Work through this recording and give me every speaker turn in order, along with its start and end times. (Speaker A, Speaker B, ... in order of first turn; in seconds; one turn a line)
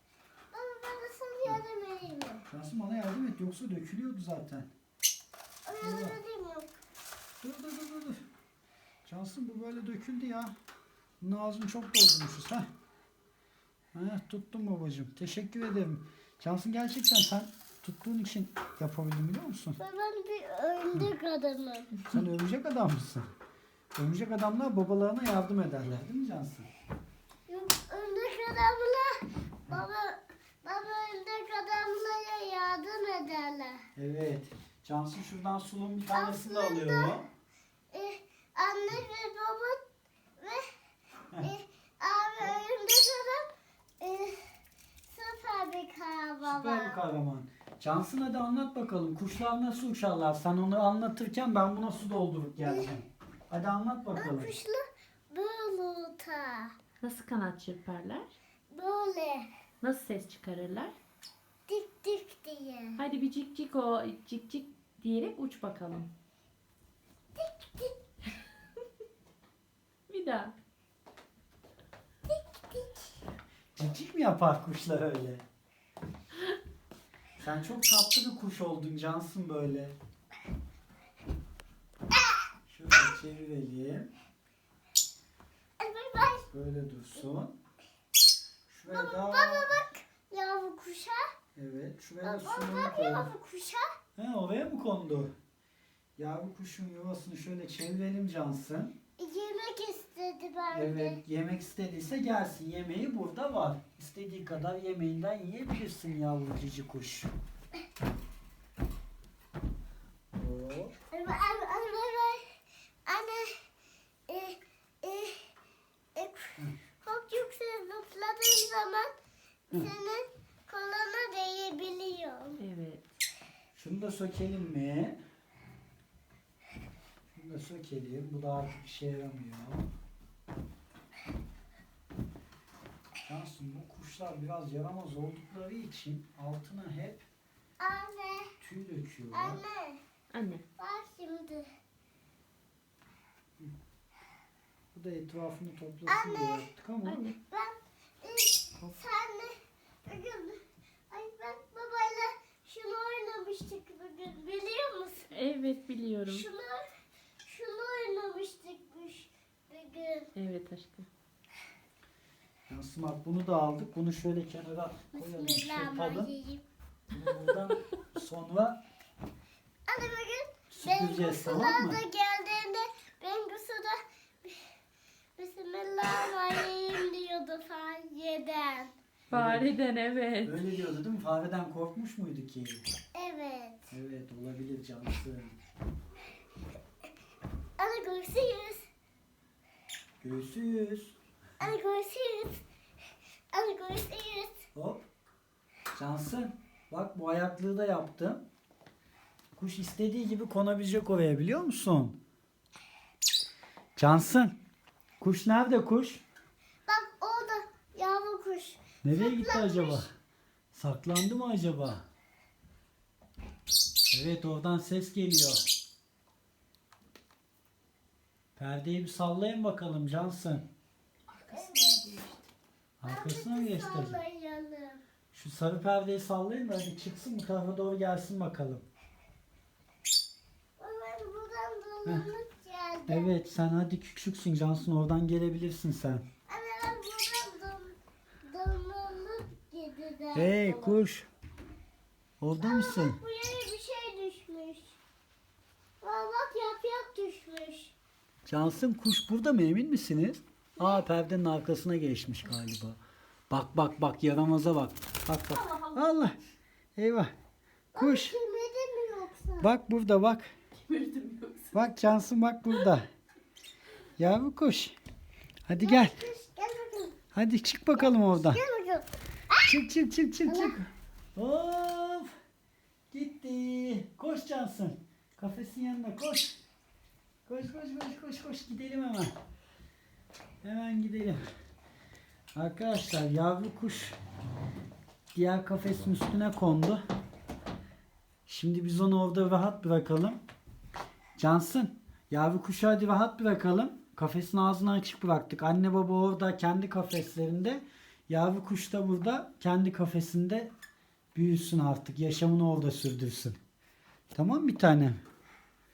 Speaker A: 0.5-2.4
Speaker B: 2.5-4.7
Speaker A: 5.7-6.7
Speaker B: 5.8-6.2
Speaker B: 7.4-8.2
Speaker B: 9.0-10.5
Speaker B: 11.2-12.7
Speaker B: 13.9-19.8
Speaker A: 19.8-22.0
Speaker B: 22.0-23.3
Speaker B: 23.9-26.7
Speaker A: 27.5-33.8
Speaker B: 33.9-37.3
Speaker A: 36.1-37.2
Speaker A: 37.9-39.8
Speaker A: 40.4-40.6
Speaker A: 41.4-44.5
Speaker A: 45.0-47.0
Speaker B: 46.5-54.5
Speaker A: 52.6-52.9
Speaker A: 54.1-56.8
Speaker C: 57.0-58.3
Speaker A: 58.7-59.5
Speaker C: 59.8-61.0
Speaker A: 61.7-63.0
Speaker C: 63.0-66.1
Speaker A: 67.3-68.0
Speaker C: 70.1-70.5
Speaker A: 72.2-73.1
Speaker B: 73.8-75.4
Speaker B: 77.4-79.9
Speaker B: 82.7-84.1
Speaker A: 85.8-86.5
Speaker B: 86.5-87.5
Speaker B: 88.7-89.8
Speaker A: 88.9-91.2
Speaker B: 91.5-93.3
Speaker A: 92.2-93.9
Speaker B: 94.2-95.3
Speaker B: 96.2-98.9
Speaker A: 99.2-101.2
Speaker B: 100.7-107.3
Speaker B: 110.3-110.9
Speaker A: 111.1-113.6
Speaker A: 114.3-115.5
Speaker A: 116.1-119.1
Speaker A: 119.7-122.6
Speaker C: 122.6-123.0
Speaker B: 123.7-125.2
Speaker B: 127.3-129.9
Speaker B: 133.2-137.2
Speaker A: 137.8-138.6
Speaker B: 138.6-139.6
Speaker A: 139.3-140.0
Speaker C: 140.3-140.6
Speaker A: 140.8-141.7
Speaker B: 144.9-147.2
Speaker A: 146.1-146.7
Speaker C: 147.0-147.4
Speaker A: 147.5-150.6
Speaker A: 151.1-155.3
Speaker C: 155.3-156.5
Speaker A: 156.2-156.8
Speaker A: 157.4-160.3
Speaker C: 160.3-161.1
Speaker B: 162.7-166.3
Speaker A: 165.1-166.6
Speaker B: 167.1-168.8
Speaker A: 169.9-174.7
Speaker B: 170.7-172.0
Speaker A: 175.4-178.9
Speaker B: 179.3-179.7
Speaker C: 179.3-180.6
Speaker B: 180.4-182.8
Speaker A: 183.1-183.9
Speaker B: 183.9-185.6
Speaker A: 187.8-188.9
Speaker B: 190.2-191.2
Speaker A: 191.6-192.6
Speaker A: 193.5-194.6
Speaker B: 194.7-195.1
Speaker B: 195.9-198.4
Speaker B: 199.6-202.2
Speaker B: 203.9-204.6
Speaker B: 205.2-206.2
Speaker A: 206.9-210.1
Speaker B: 209.0-210.1
Speaker B: 210.7-212.0
Speaker B: 214.1-215.6
Speaker B: 218.6-220.6
Speaker C: 221.3-222.5
Speaker A: 221.5-222.1
Speaker B: 223.0-224.2
Speaker A: 223.0-225.0
Speaker B: 225.3-228.8
Speaker A: 230.8-233.3
Speaker B: 233.1-236.2
Speaker A: 236.5-241.0
Speaker B: 240.3-241.3
Speaker B: 242.4-243.2
Speaker A: 242.6-245.0
Speaker A: 246.0-247.9
Speaker B: 248.5-253.0
Speaker A: 250.8-251.0
Speaker B: 253.5-256.4
Speaker C: 255.5-256.1
Speaker B: 256.9-257.3
Speaker A: 257.9-259.7
Speaker B: 258.0-258.4
Speaker B: 259.6-260.5
Speaker C: 260.8-261.8
Speaker B: 261.7-263.1
Speaker B: 264.2-264.9
Speaker B: 265.7-266.2
Speaker A: 265.8-267.2
Speaker B: 267.3-268.6
Speaker A: 267.9-269.7
Speaker B: 269.6-272.3
Speaker A: 270.4-270.8
Speaker B: 273.1-276.6
Speaker B: 277.5-279.3
Speaker B: 280.6-281.4
Speaker B: 282.5-284.1
Speaker B: 285.3-287.0
Speaker B: 288.5-290.4
Speaker B: 291.4-300.7
Speaker B: 301.3-303.6
Speaker B: 304.3-305.2